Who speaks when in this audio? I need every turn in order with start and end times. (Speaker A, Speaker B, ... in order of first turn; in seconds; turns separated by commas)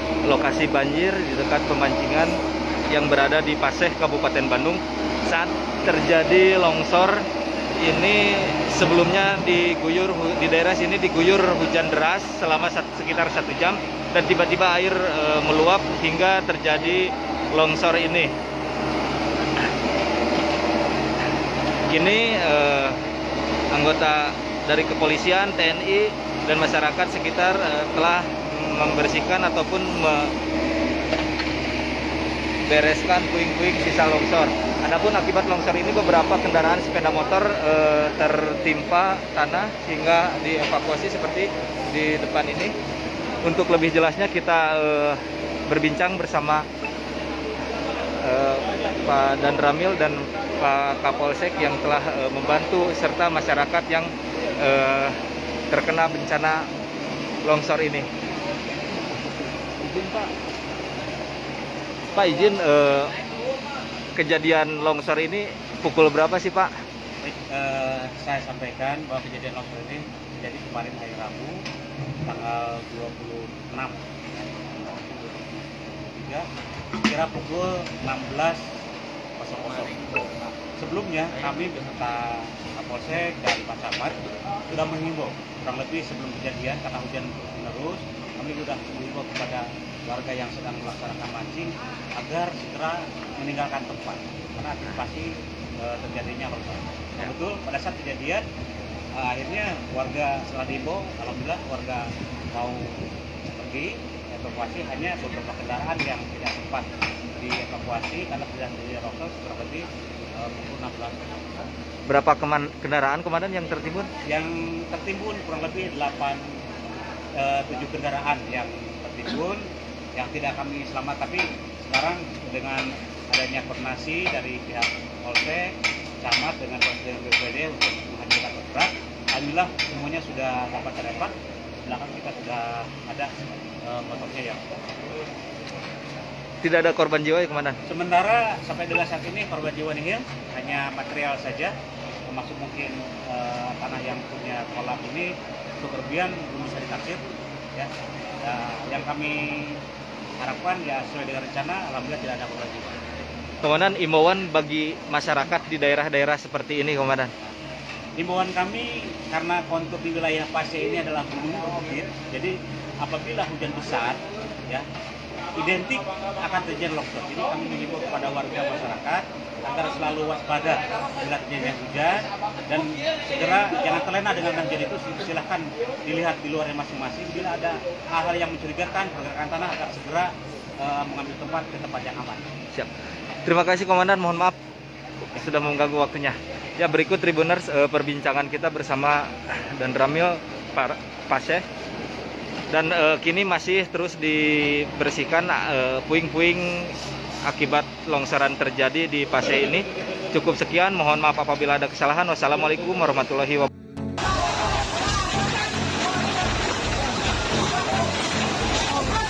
Speaker A: 0.2-7.2, Speaker A: 7.8-18.3, Speaker A: 21.9-23.0, Speaker A: 23.7-30.3, Speaker A: 32.6-42.7, Speaker A: 43.4-46.6, Speaker A: 48.2-55.1, Speaker A: 55.7-56.7, Speaker A: 57.4-58.1, Speaker B: 59.9-60.1, Speaker A: 62.1-63.1, Speaker A: 64.2-66.7, Speaker B: 67.2-71.6, Speaker B: 72.2-76.5, Speaker B: 77.0-78.7, Speaker B: 79.4-84.2, Speaker B: 84.7-98.4, Speaker B: 99.1-111.7, Speaker A: 112.1-114.1, Speaker B: 114.2-116.5, Speaker B: 117.4-119.6, Speaker B: 120.2-131.3, Speaker B: 131.8-134.8, Speaker A: 136.6-137.8, Speaker B: 137.9-141.7, Speaker B: 142.3-147.9, Speaker B: 148.4-149.8, Speaker B: 150.4-153.0, Speaker A: 153.6-157.3, Speaker B: 158.2-164.8, Speaker B: 165.6-182.5, Speaker A: 183.4-184.6, Speaker A: 185.3-191.6, Speaker A: 192.7-203.7